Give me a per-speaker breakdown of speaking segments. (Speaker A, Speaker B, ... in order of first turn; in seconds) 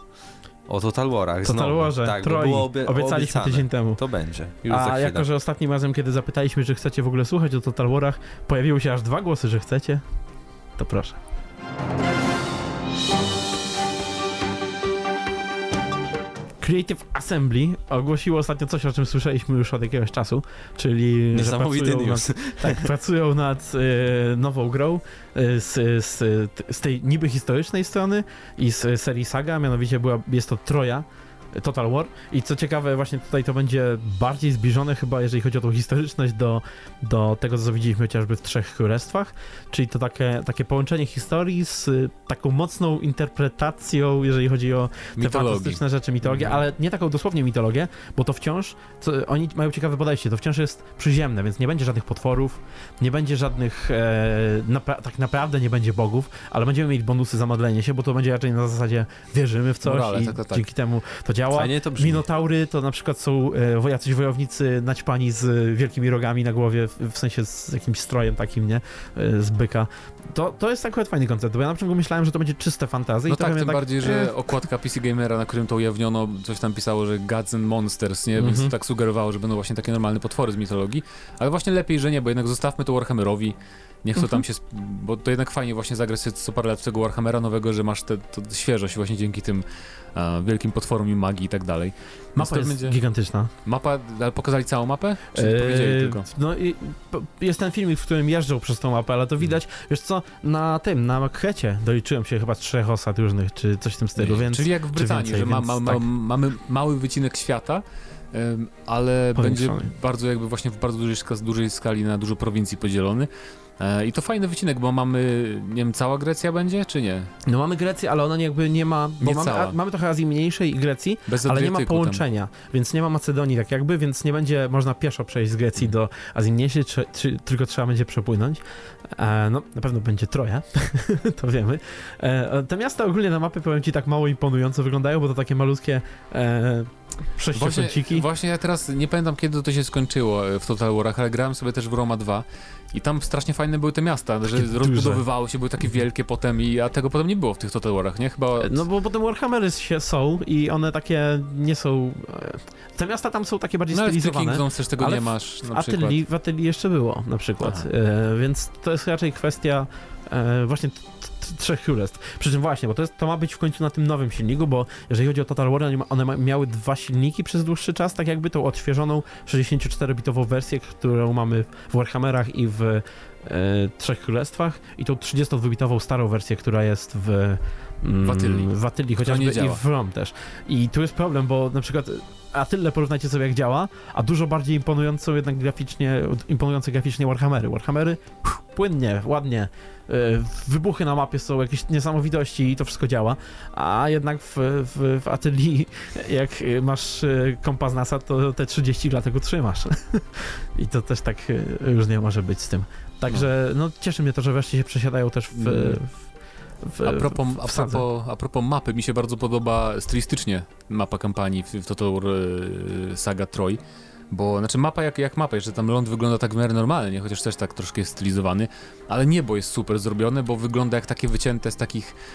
Speaker A: 0.7-5.3, 21.3-22.9, 61.5-62.2
Speaker B: 1.4-4.0, 4.7-10.0, 10.8-11.2, 16.6-74.4, 78.4-78.7, 92.4-93.5, 95.3-106.0, 109.3-109.9, 117.5-138.3, 144.5-145.2, 148.6-208.0
Speaker C: 45.2-46.6, 59.8-60.6, 73.3-93.0, 93.6-96.3, 104.2-117.3, 119.2-119.8, 121.3-122.2, 137.5-148.8, 153.9-156.2, 157.6-157.9, 178.2-179.8, 205.6-206.0, 207.0-222.2